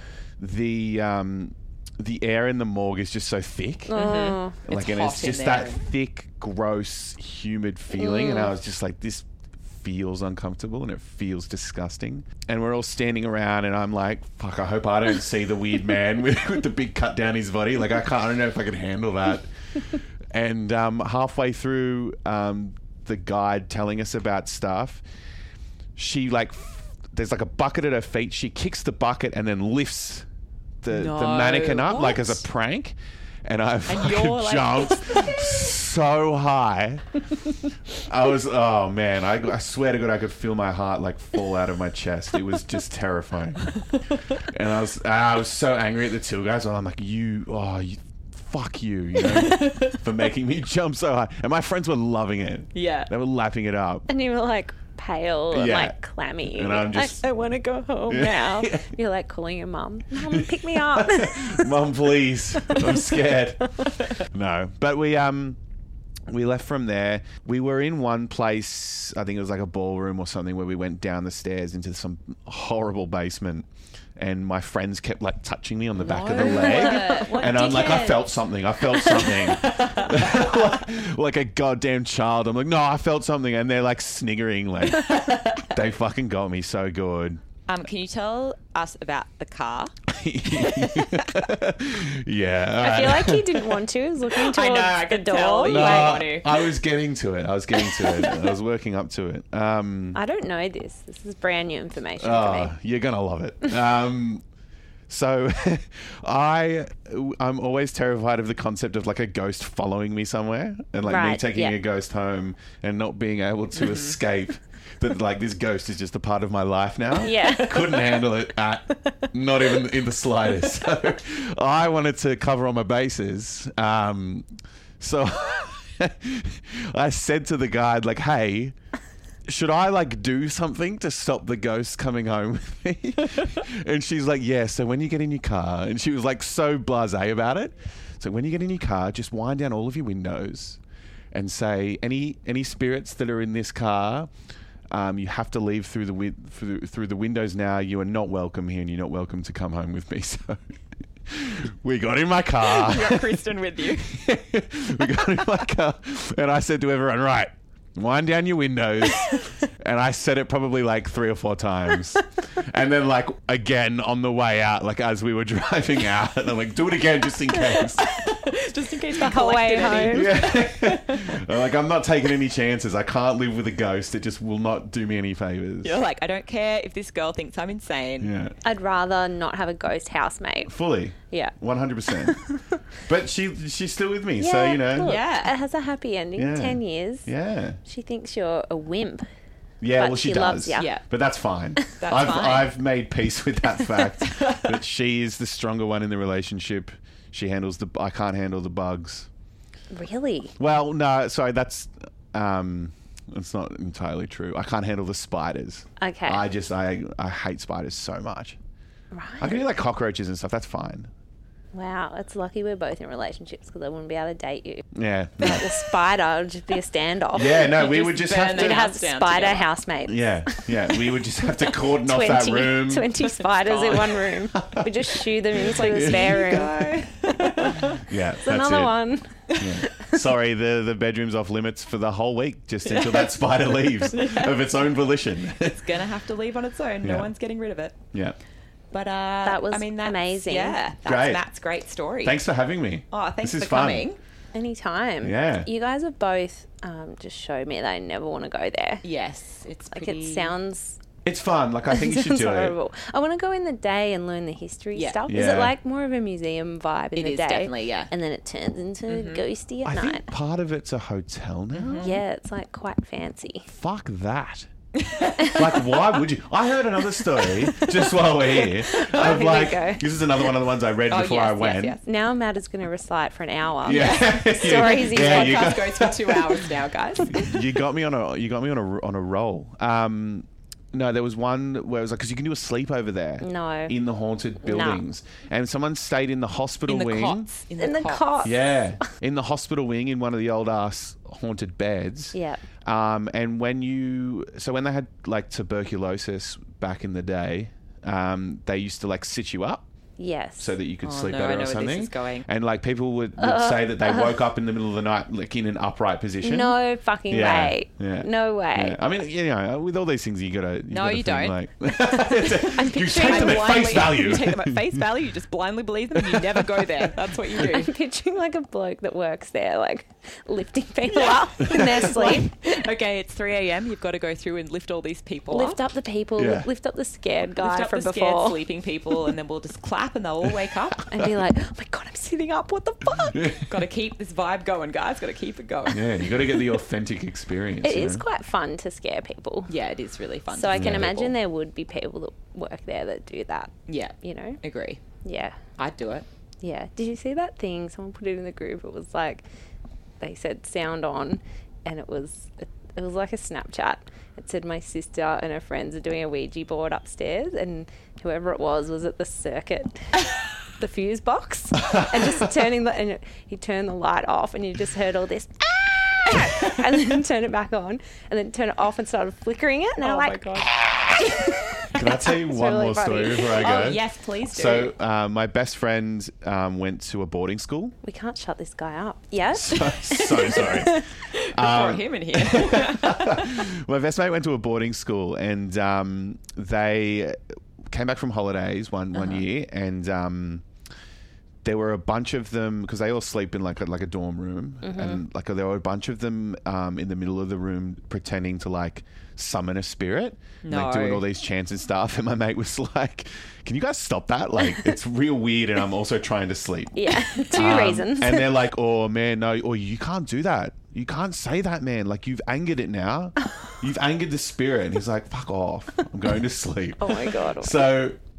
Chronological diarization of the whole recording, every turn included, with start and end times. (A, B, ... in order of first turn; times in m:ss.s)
0:00.4-0:25.0 A
0:03.9-0:04.6 B
0:03.9-0:05.8 C
0:08.0-0:08.5 B
0:26.0-0:30.2 A
0:30.8-0:43.8 A
0:30.9-0:32.4 C
0:33.9-0:35.8 C
0:43.7-0:44.4 C
0:44.5-0:54.1 A
0:49.1-0:50.1 C
0:52.7-0:53.1 C
0:54.1-1:01.8 B
0:55.5-0:57.2 A
0:58.1-0:58.9 A
1:00.3-1:05.6 A
1:02.7-1:03.9 B
1:06.3-1:27.4 A
1:16.0-1:20.8 C
1:16.4-1:17.7 B
1:24.9-1:25.8 C
1:27.7-1:31.4 C
1:30.1-1:33.8 A
1:32.8-1:36.2 B
1:34.3-1:36.7 C
1:35.6-1:40.2 A
1:38.0-1:38.4 C
1:40.1-1:42.7 B
1:42.2-1:44.4 A
1:45.1-2:04.4 A
1:51.0-1:51.8 B
1:53.7-1:54.2 C
1:57.2-1:58.1 B
1:57.4-1:58.0 C
2:05.0-2:08.7 A
2:09.5-2:20.8 A
2:21.3-2:24.3 A
2:24.9-2:30.8 A
2:31.3-2:48.1 A
2:32.6-2:34.2 C
2:48.0-2:51.4 C
2:49.2-2:50.4 B
2:49.9-2:56.0 A
2:55.8-2:58.3 C
2:58.2-2:58.6 A
2:58.6-3:00.7 B
3:00.7-3:02.4 A
3:01.3-3:01.5 B
3:02.1-3:02.7 B
3:03.0-3:05.2 A
3:04.4-3:07.3 B
3:05.0-3:05.5 C
3:06.4-3:07.8 A
3:07.8-3:09.3 B
3:09.8-3:19.3 A
3:10.0-3:10.9 B
3:10.8-3:11.0 C
3:12.0-3:12.7 C
3:14.2-3:14.8 C
3:19.9-3:20.5 B
3:20.6-3:28.6 A
3:26.0-3:26.4 B
3:29.1-3:29.6 B
3:29.4-3:31.1 A
3:31.7-3:34.8 B
3:34.9-3:35.8 A
3:35.4-3:37.8 B
3:37.3-3:38.8 A
3:37.5-3:39.7 C
3:38.4-3:50.2 B
3:40.0-3:43.2 A
3:43.4-3:44.4 C
3:44.5-3:46.9 A
3:45.5-3:48.0 C
3:47.7-3:56.0 A
3:49.5-3:49.8 C
3:52.8-3:53.4 C
3:54.1-3:54.7 C
3:55.5-3:58.0 C
3:57.0-3:57.3 A
3:58.9-4:02.4 C
3:59.4-4:00.8 B
4:01.0-4:01.4 A
4:02.2-4:04.1 A
4:03.1-4:04.2 C
4:04.5-4:09.0 B
4:05.2-4:05.7 A
4:09.0-4:10.5 C
4:09.9-4:11.0 B
4:11.2-4:12.8 A
4:11.9-4:20.3 B
4:14.9-4:15.2 C
4:15.3-4:15.7 A
4:17.1-4:18.1 C
4:19.1-4:19.4 C
4:19.8-4:22.1 A
4:21.7-4:22.2 C
4:22.0-4:23.7 B
4:23.7-4:24.7 A
4:24.9-4:26.0 C
4:25.4-4:32.0 A
4:27.2-4:29.6 C
4:27.8-4:30.1 B
4:31.1-4:32.0 C
4:32.0-4:35.9 B
4:33.8-4:36.6 A
4:33.8-4:37.5 C
4:37.3-4:47.5 A
4:43.4-4:43.9 B
4:44.6-4:45.0 B
4:46.8-4:48.5 C
4:47.8-4:48.7 B
4:48.4-4:59.8 A
4:52.3-4:52.6 B
5:00.2-5:00.7 B
5:00.6-5:06.8 A
5:01.0-5:02.5 C
5:03.4-5:04.4 B
5:06.4-5:09.0 B
5:07.3-5:15.1 A
5:10.9-5:17.9 C
5:12.6-5:14.2 B
5:16.1-5:16.9 A
5:17.5-5:22.6 B
5:21.1-5:25.8 C
5:21.6-5:22.1 A
5:25.5-5:28.6 B
5:26.4-5:26.7 A
5:27.6-5:31.1 C
5:31.1-5:33.5 B
5:33.3-5:33.6 A
5:33.7-5:36.0 C
5:35.9-5:38.2 A
5:37.8-5:39.7 B
5:39.7-5:41.3 C
5:40.5-5:44.6 B
5:40.7-5:41.1 A
5:43.9-5:45.0 C
5:45.2-5:45.6 B
5:45.8-5:46.2 C
5:46.6-5:49.4 B
5:50.2-6:00.2 B
6:00.7-6:10.7 B
6:01.8-6:02.4 A
6:10.0-6:12.0 C
6:11.8-6:13.9 B
6:11.9-6:18.0 A
6:13.5-6:14.9 C
6:18.0-6:21.1 B
6:19.5-6:27.4 A
6:20.1-6:23.7 C
6:27.9-6:30.6 A
6:31.6-6:58.2 A
6:34.8-6:35.2 B
6:40.6-6:41.2 C
6:47.0-6:48.6 B
6:57.0-6:57.8 C
6:57.2-6:57.9 B